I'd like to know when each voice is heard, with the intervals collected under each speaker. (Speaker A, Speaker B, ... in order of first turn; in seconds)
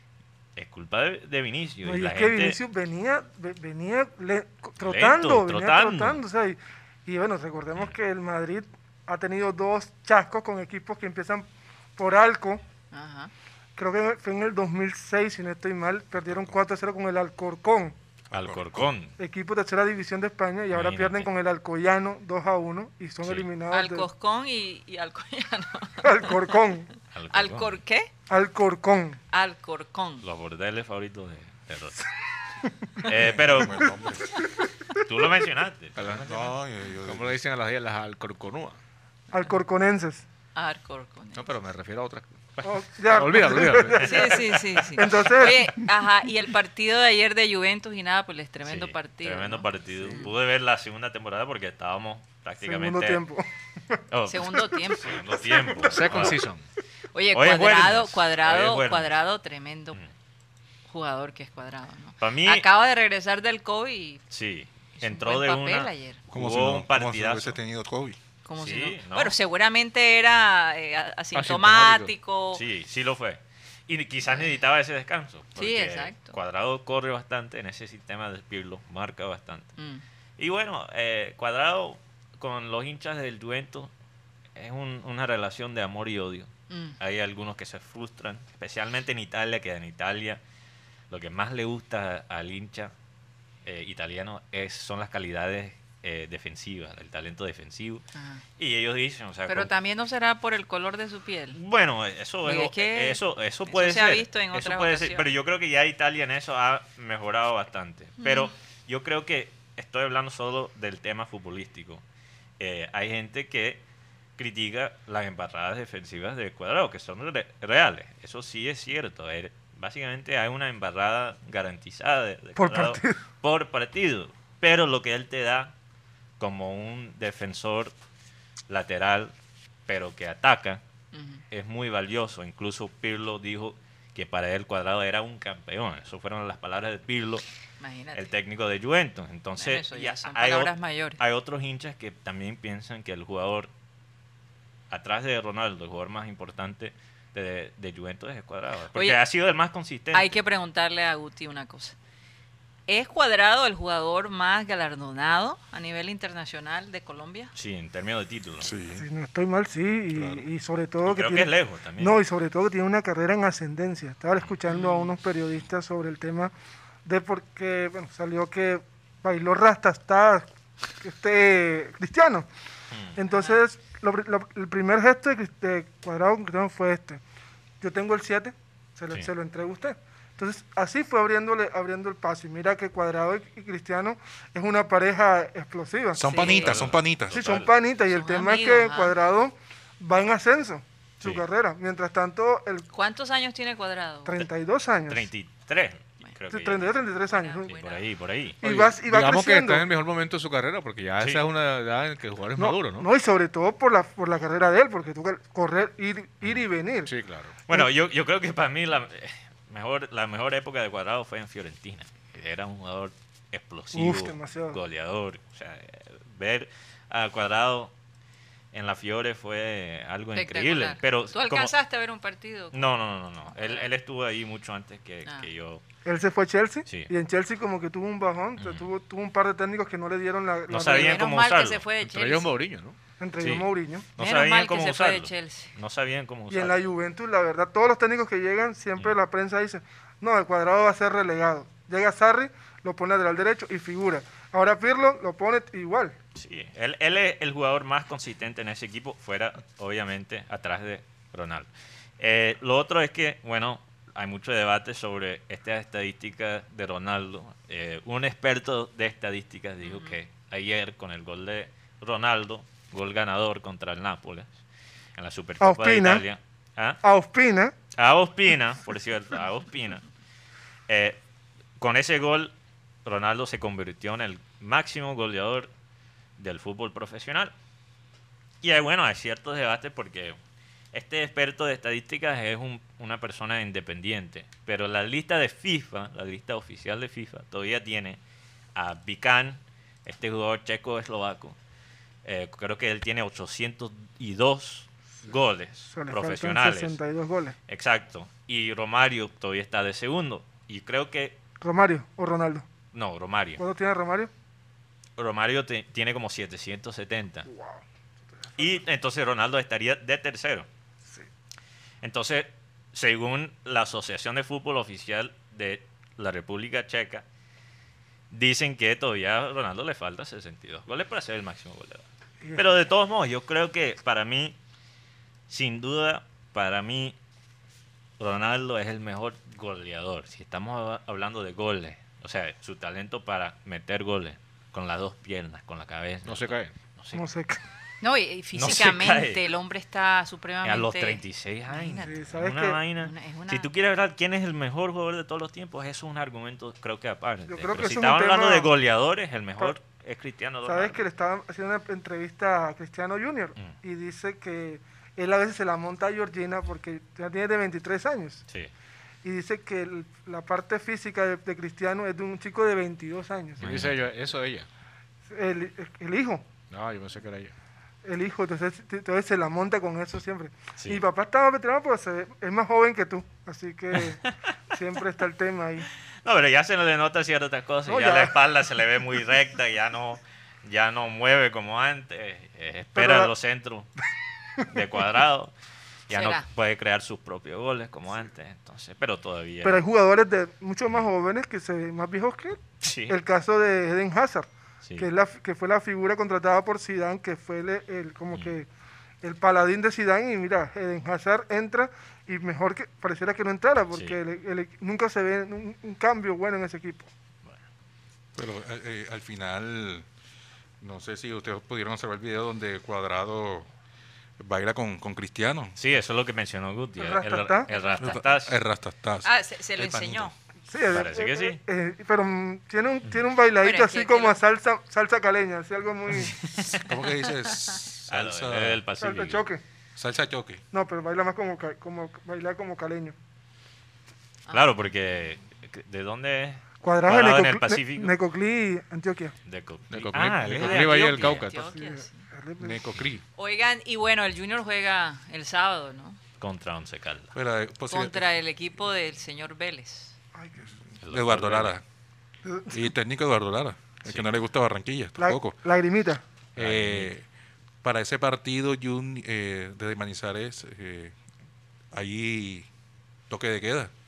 Speaker A: 0.6-2.6, 4.8-6.2, 18.3-19.1, 20.7-21.3, 23.2-23.5, 27.1-27.8, 30.2-32.0, 33.0-33.8, 35.0-36.5, 48.6-53.2, 54.1-56.4, 57.3-59.1, 62.2-62.7, 64.3-67.6, 68.6-69.3, 72.5-79.7, 80.4-83.9, 84.5-90.4, 91.1-92.9, 93.6-98.0, 98.6-99.7, 101.5-112.0, 112.6-113.8, 114.4-125.7, 126.4-127.9, 128.7-129.3, 129.9-130.8, 131.5-137.4, 138.1-143.7, 144.9-150.3, 157.5-158.7, 161.0-162.2, 186.4-187.7, 195.1-197.0, 197.7-198.6, 207.7-217.9, 218.7-221.7, 222.7-225.8, 226.8-227.1, 228.6-228.9, 230.7-231.8, 233.4-236.8, 246.3-251.7, 252.2-264.5, 265.1-267.0, 267.9-270.0, 270.9-271.2, 271.8-272.5, 273.0-275.7, 276.4-277.5, 278.6-280.4, 280.9-288.2, 288.7-291.6, 292.2-297.0, 297.7-301.4, 302.9-303.6, 305.2-307.5, 308.6-310.7, 312.0-317.2, 318.3-324.6, 325.5-327.1, 328.2-337.2, 338.5-339.4, 340.6-351.0, 363.6-364.0, 370.8-371.0, 374.0-374.3, 376.2-383.9, 384.7-385.5, 386.1-389.8, 392.8-393.1, 403.9-404.2, 415.8-418.6, 420.9-421.6, 426.2-426.8, 428.1-429.4, 434.5-438.1, 439.4-441.4, 446.4-447.3, 451.0-451.7, 456.6-457.1
Speaker B: 1.8-12.6, 13.8-18.0, 19.2-24.1, 26.0-26.9, 28.3-29.2, 39.3-40.2, 42.6-45.8, 52.6-56.4, 122.5-123.2, 158.9-166.5, 167.0-170.5, 171.0-172.5, 173.1-177.2, 177.8-186.7, 187.3-192.9, 194.2-195.3, 196.5-197.7, 198.6-199.9, 202.6-207.1, 213.9-214.8, 226.0-231.3, 233.2-234.1, 236.5-246.2, 265.6-266.2, 267.0-267.7, 295.9-297.6, 301.6-302.6, 303.6-304.3, 307.4-308.8, 337.1-337.6, 342.0-342.8, 347.5-348.7, 350.6-358.4, 359.2-363.6, 365.3-366.4, 368.0-375.9, 377.9-378.3, 382.9-383.3, 389.6-398.7, 399.2-407.1, 417.0-417.7, 420.7-426.4, 429.0-429.6, 430.7-433.1, 436.8-439.3, 441.6-442.8, 450.3-450.7, 452.4-452.8, 455.2-456.2
Speaker C: 12.9-13.3, 23.7-26.1, 27.3-28.1, 29.3-30.2, 40.5-41.5, 44.0-50.3, 54.3-55.2, 57.1-60.0, 60.9-64.2, 65.0-66.2, 68.4-72.6, 75.5-76.4, 79.8-80.0, 86.7-87.0, 98.1-98.4, 99.5-101.6, 102.4-105.3, 108.2-108.5, 131.1-131.4, 137.8-138.3, 139.6-141.2, 148.9-149.2, 150.1-151.9, 152.9-157.5, 164.7-165.1, 173.3-173.6, 186.3-186.7, 188.1-189.1, 192.9-194.4, 197.3-198.1, 220.3-222.9, 223.5-223.9, 230.8-232.5, 234.2-235.7, 259.8-260.1, 338.0-342.2, 342.9-343.7, 386.1-386.4, 417.7-418.3, 419.2-420.3, 423.6-424.4, 434.5-434.7, 440.6-442.2, 443.4-446.2, 447.9-450.1
Speaker D: 16.2-16.5, 18.3-18.9, 33.1-34.4, 36.2-37.4, 66.3-68.2, 158.6-159.1, 160.1-160.4, 186.1-187.4, 408.3-410.1, 410.8-413.7, 414.4-415.8, 418.0-420.3, 426.5-428.8, 429.9-430.6, 442.6-443.2, 447.3-448.3, 451.0-451.8, 452.7-455.6, 456.6-457.2, 457.8-461.1, 461.9-462.7, 463.3-463.9
Speaker E: 36.0-36.3, 37.0-38.8, 41.3-44.3, 55.9-56.6, 71.3-72.1, 198.6-203.1, 207.1-207.5, 232.0-233.0, 336.2-336.7, 363.6-364.7, 366.7-367.5, 439.9-441.6